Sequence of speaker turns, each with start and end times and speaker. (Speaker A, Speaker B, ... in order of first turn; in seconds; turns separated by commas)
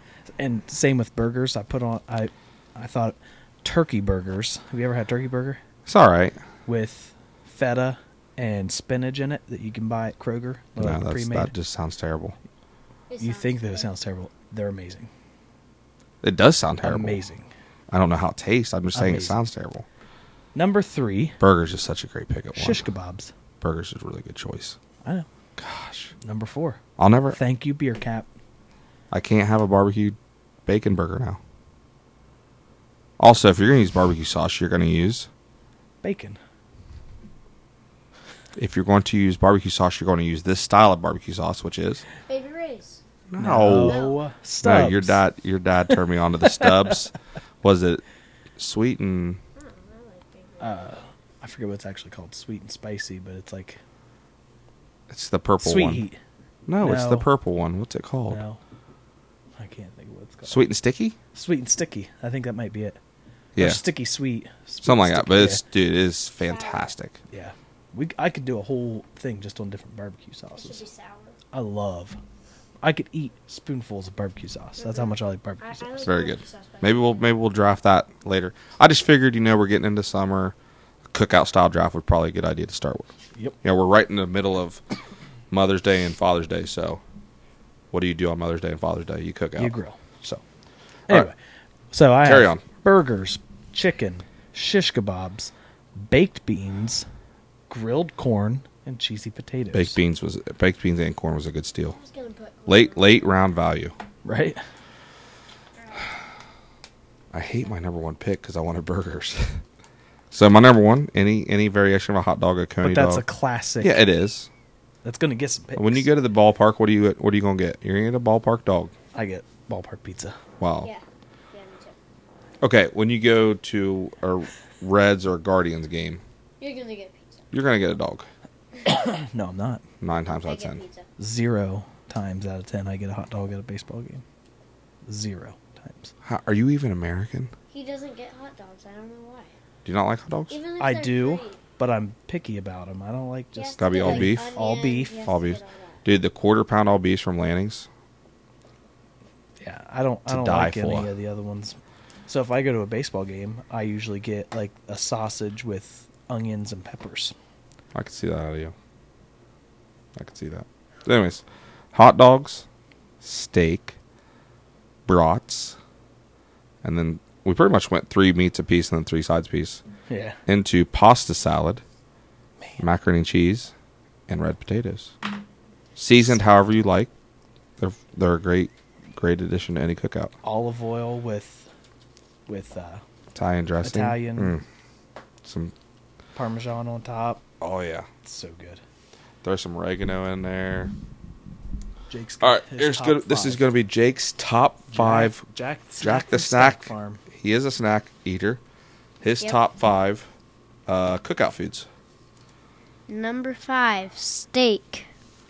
Speaker A: 0.4-5.6, Speaker B: 5.8-6.4, Speaker A: 6.7-11.5, Speaker B: 10.8-12.3, Speaker C: 13.1-13.9, Speaker A: 13.2-15.1, Speaker B: 16.2-17.2, Speaker A: 16.8-17.5, Speaker B: 17.9-19.9, Speaker A: 18.9-19.4, Speaker A: 20.5-21.4, Speaker B: 21.4-22.9, Speaker A: 22.5-23.3, Speaker B: 23.6-24.8, Speaker B: 25.6-26.1, Speaker A: 26.2-26.8, Speaker B: 27.0-27.4, Speaker A: 27.3-28.3, Speaker B: 29.1-31.4, Speaker B: 33.2-35.3, Speaker A: 36.0-36.4, Speaker B: 38.5-42.0, Speaker C: 42.3-43.0, Speaker B: 43.3-44.0, Speaker A: 43.4-45.2, Speaker C: 43.7-44.2, Speaker B: 44.6-48.0, Speaker B: 48.6-49.4, Speaker C: 49.5-50.9, Speaker A: 50.6-53.8, Speaker B: 55.1-56.0, Speaker A: 55.6-56.2, Speaker B: 56.7-58.4, Speaker A: 56.8-57.3, Speaker A: 58.3-58.6, Speaker A: 59.6-60.7, Speaker B: 60.4-61.2, Speaker A: 61.3-63.0, Speaker B: 63.5-63.8, Speaker A: 63.6-65.6, Speaker B: 64.8-67.2, Speaker C: 66.4-66.9, Speaker A: 67.3-70.8, Speaker C: 70.6-71.4, Speaker A: 71.5-72.2, Speaker A: 72.8-76.1, Speaker C: 74.8-77.3, Speaker B: 76.0-80.5, Speaker B: 81.1-84.8, Speaker B: 85.5-87.0, Speaker B: 87.9-90.4, Speaker A: 89.5-90.0, Speaker A: 91.1-91.3, Speaker A: 91.9-97.0, Speaker B: 92.2-92.6, Speaker A: 97.7-100.0, Speaker B: 99.7-102.0, Speaker C: 101.9-103.5, Speaker B: 102.7-103.9, Speaker A: 104.2-104.6, Speaker C: 105.8-106.2, Speaker B: 107.3-109.6, Speaker B: 110.3-113.2, Speaker A: 112.8-114.0, Speaker B: 113.8-114.5, Speaker A: 115.0-116.1, Speaker B: 115.8-118.9, Speaker A: 119.1-120.4, Speaker B: 120.6-120.9, Speaker C: 120.8-122.0, Speaker B: 122.6-126.2, Speaker C: 126.6-127.5, Speaker B: 127.5-128.3, Speaker A: 128.8-129.8, Speaker B: 130.0-130.8, Speaker C: 130.4-131.1, Speaker A: 131.2-134.2, Speaker A: 135.1-136.1, Speaker B: 136.2-137.5, Speaker C: 137.7-139.5, Speaker B: 139.8-140.6, Speaker C: 140.5-141.6, Speaker A: 140.8-145.3, Speaker C: 143.5-146.0, Speaker B: 143.8-144.5, Speaker B: 145.2-147.9, Speaker A: 149.6-157.3, Speaker B: 150.3-151.1, Speaker B: 157.9-158.7, Speaker B: 160.1-162.7, Speaker B: 163.2-163.9, Speaker B: 165.1-165.8, Speaker B: 166.8-169.8, Speaker A: 170.1-170.4, Speaker B: 170.5-171.8, Speaker B: 172.8-173.7, Speaker B: 174.3-175.1, Speaker B: 175.9-177.1, Speaker B: 177.8-180.3, Speaker A: 180.4-181.7, Speaker A: 182.5-183.0, Speaker B: 183.3-184.6, Speaker A: 183.8-184.6, Speaker B: 185.4-185.7, Speaker A: 186.3-187.4, Speaker B: 187.6-188.1, Speaker A: 188.2-188.8, Speaker B: 189.4-190.9, Speaker A: 192.1-193.7, Speaker B: 192.4-195.4, Speaker A: 194.9-197.2, Speaker B: 196.0-198.6, Speaker B: 199.2-200.3, Speaker B: 200.9-201.9, Speaker C: 203.1-205.1